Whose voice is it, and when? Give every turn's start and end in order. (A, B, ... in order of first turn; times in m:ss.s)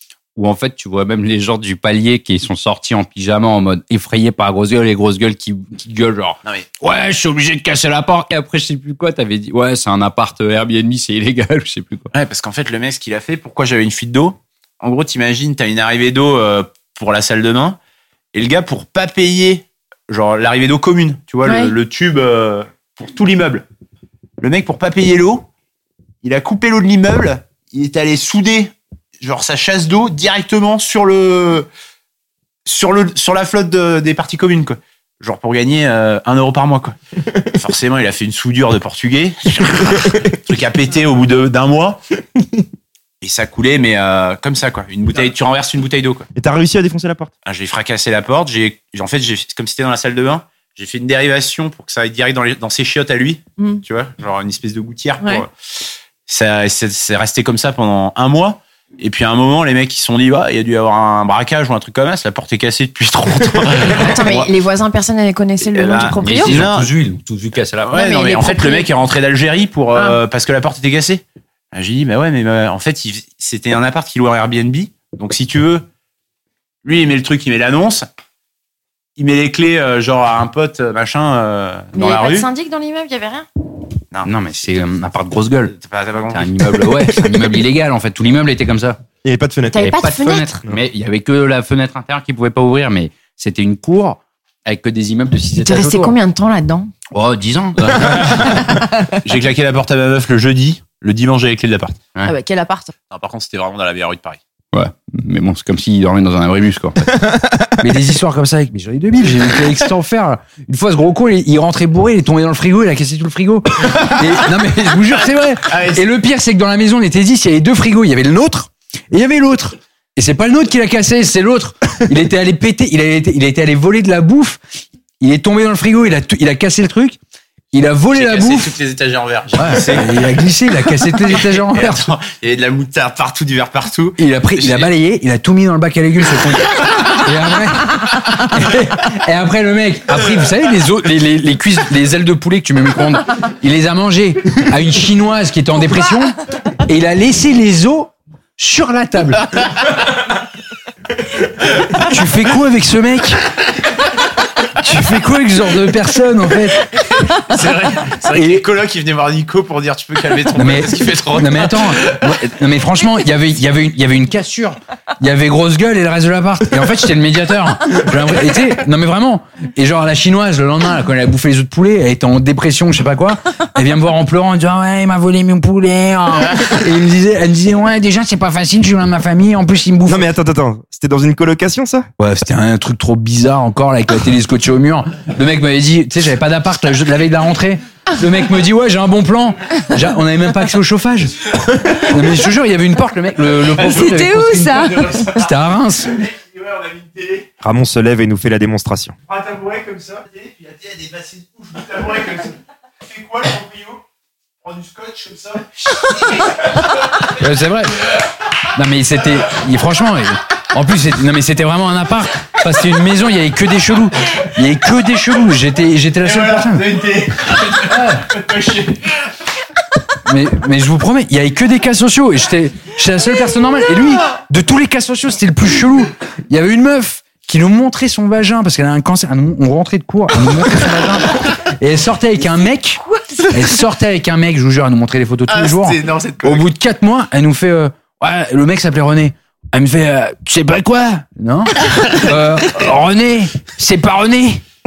0:00.4-0:12.1 A
0:12.1-0:17.8 B
0:18.3-0:23.7 B
0:21.4-0:21.7 C
0:24.4-0:25.5 B
0:26.2-0:31.7 B
0:32.7-0:37.0 B
0:37.5-0:42.0 B
0:43.2-0:46.3 B
0:46.4-0:47.3 D
0:47.4-1:04.5 B
1:03.9-1:06.6 C
1:05.7-1:06.9 B
1:06.2-1:08.1 A
1:07.8-1:15.9 B
1:07.9-1:08.9 C
1:16.8-1:18.1 B
1:19.2-1:22.5 B
1:21.9-1:23.5 C
1:24.2-1:25.8 A
1:25.7-1:26.5 B
1:26.3-1:29.0 A
1:29.2-1:29.9 D
1:29.7-1:30.6 C
1:29.8-1:36.2 A
1:35.6-1:36.9 C
1:37.1-1:38.2 A
1:37.8-1:42.0 B
1:38.6-1:38.9 C
1:42.2-1:42.9 C
1:43.1-1:44.4 B
1:44.7-1:47.2 A
1:47.8-2:04.6 A
1:55.7-1:56.0 B
2:05.2-2:07.2 A
2:07.7-2:08.8 A
2:08.1-2:14.9 B
2:09.6-2:12.1 A
2:14.2-2:29.5 A
2:31.9-2:33.4 A
2:34.8-2:36.9 A
2:37.0-2:42.3 B
2:38.3-2:38.6 A
2:40.6-3:00.3 A
3:00.1-3:02.1 D
3:02.2-3:16.2 A
3:13.7-3:17.5 B
3:13.8-3:15.2 C
3:17.6-3:19.2 D
3:19.3-3:24.0 B
3:24.6-3:27.3 B
3:27.2-3:28.2 A
3:28.7-3:36.9 A
3:36.2-3:39.2 B
3:37.8-3:38.3 A
3:40.2-4:04.6 A
3:55.5-3:56.6 B